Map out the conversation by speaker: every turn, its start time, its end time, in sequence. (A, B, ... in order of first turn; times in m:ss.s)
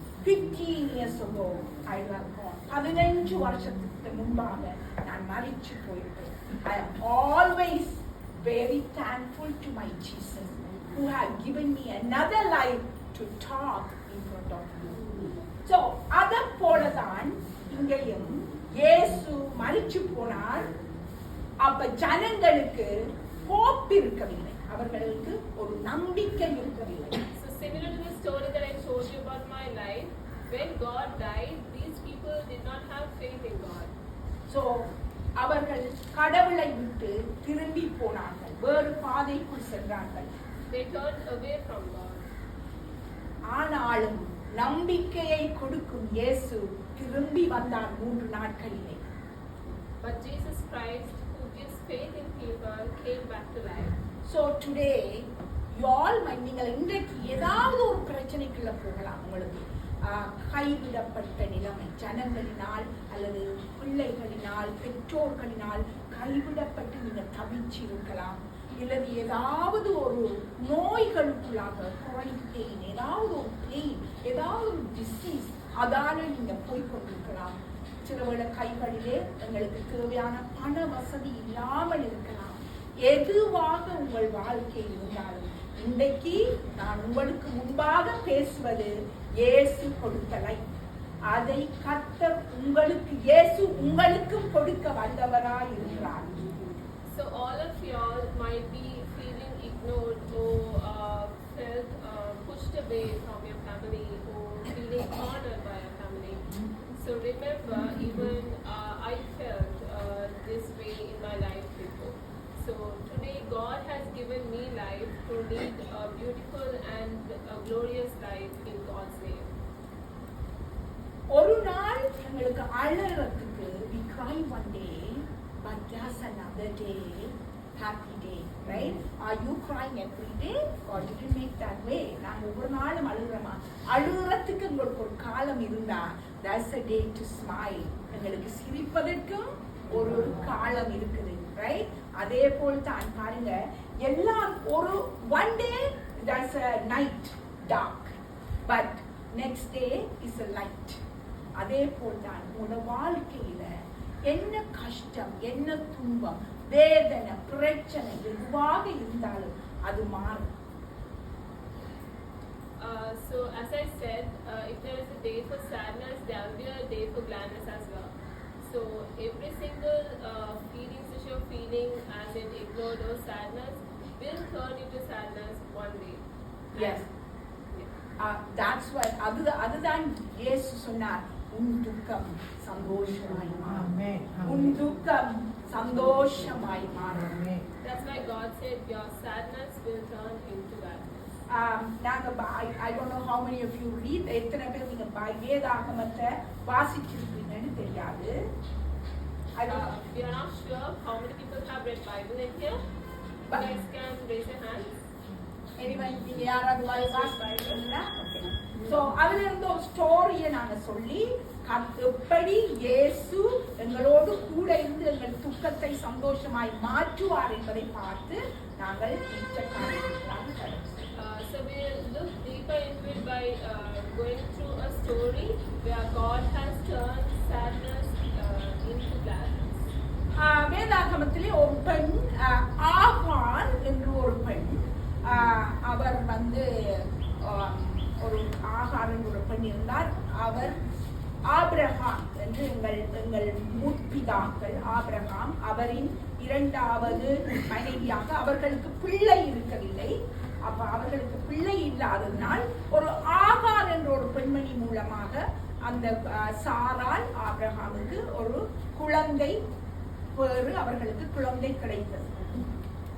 0:00.2-0:15.0 A
0:15.6-0:20.7 A
0:21.6-0:27.2 A
0:27.3-0:33.9 B
0:34.5-0:40.3 A
0:40.7-0:42.3 B
0:43.5-0:49.0 A
0:50.0-0:54.0 B
0:54.2-1:30.6 A
1:31.3-1:36.4 A
1:37.1-1:59.5 B
2:01.3-2:31.0 A
2:31.6-2:33.7 A
2:34.2-2:40.5 A
2:42.8-2:56.2 B
2:56.7-2:57.0 A
2:56.8-2:57.0 B
2:58.2-3:07.6 A
3:07.8-3:11.3 B
3:11.5-3:18.5 A
3:19.6-3:19.9 A
3:19.6-3:22.8 B
3:23.5-3:24.9 B
3:25.8-3:41.1 A
3:26.8-3:27.8 B
3:41.1-3:49.9 B
3:50.3-4:00.8 A
4:01.5-4:19.6 A
4:20.3-4:22.6 A